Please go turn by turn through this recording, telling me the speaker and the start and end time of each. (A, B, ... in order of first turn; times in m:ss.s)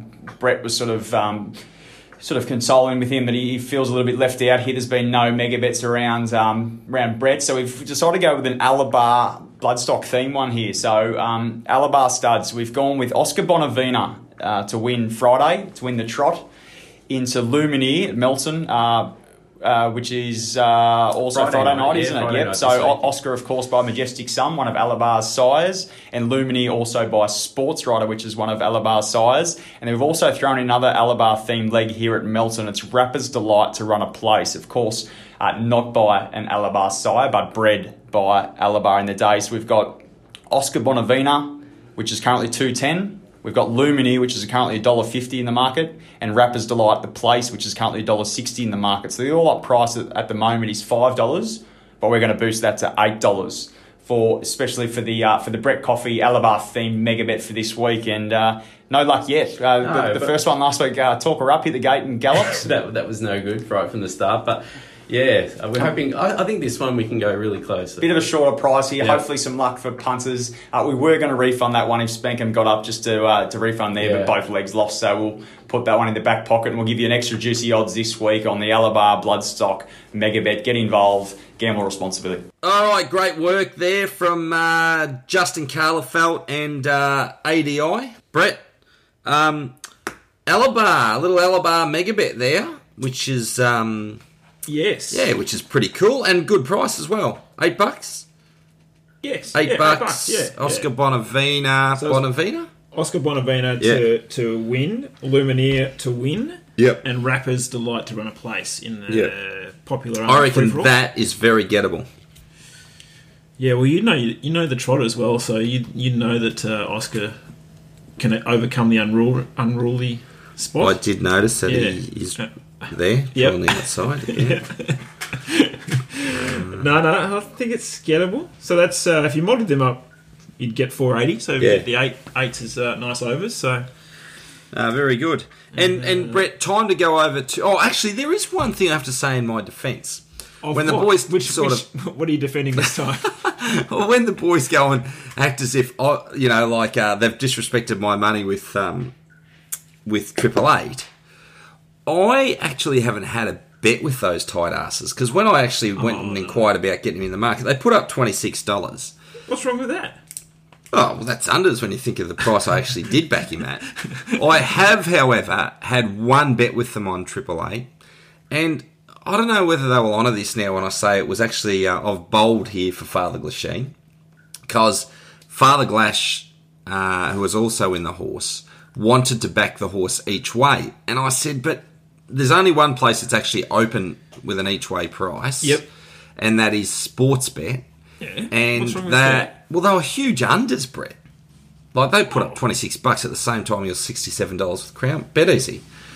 0:00.4-0:01.6 A
0:02.2-0:16.5 A
0:17.1-0:40.0 A
0:21.3-0:23.1 B
0:40.5-1:02.6 A
0:59.8-1:00.4 B
1:02.4-1:08.1 B
1:08.0-1:22.5 A
1:14.0-1:14.4 B
1:22.6-1:28.6 C
1:29.2-1:29.8 C
1:30.5-1:34.2 C
1:34.7-1:35.3 D
1:35.1-1:38.3 C
1:39.2-1:40.9 D
1:39.6-1:42.7 C
1:42.0-1:42.3 D
1:42.9-1:50.9 D
1:43.8-1:44.0 C
1:46.8-1:47.0 C
1:49.1-1:49.3 C
1:50.3-1:52.1 C
1:53.6-1:57.4 D
1:58.2-2:01.0 D
2:00.8-2:04.6 C
2:01.7-2:10.1 D
2:06.3-2:06.9 C
2:10.6-2:13.9 D
2:11.6-2:11.9 C
2:14.7-2:21.9 C
2:15.8-2:16.4 D
2:20.6-2:23.4 D
2:22.8-2:29.1 C
2:30.0-2:31.1 C
2:32.1-2:39.1 C
2:36.0-2:36.7 D
2:39.5-2:40.2 D
2:40.9-2:47.9 C
2:48.5-2:54.0 C
2:54.7-3:05.8 C
3:06.4-3:07.8 C
3:08.2-3:09.5 D
3:08.5-3:11.2 C
3:11.9-3:15.8 C
3:12.3-3:12.6 D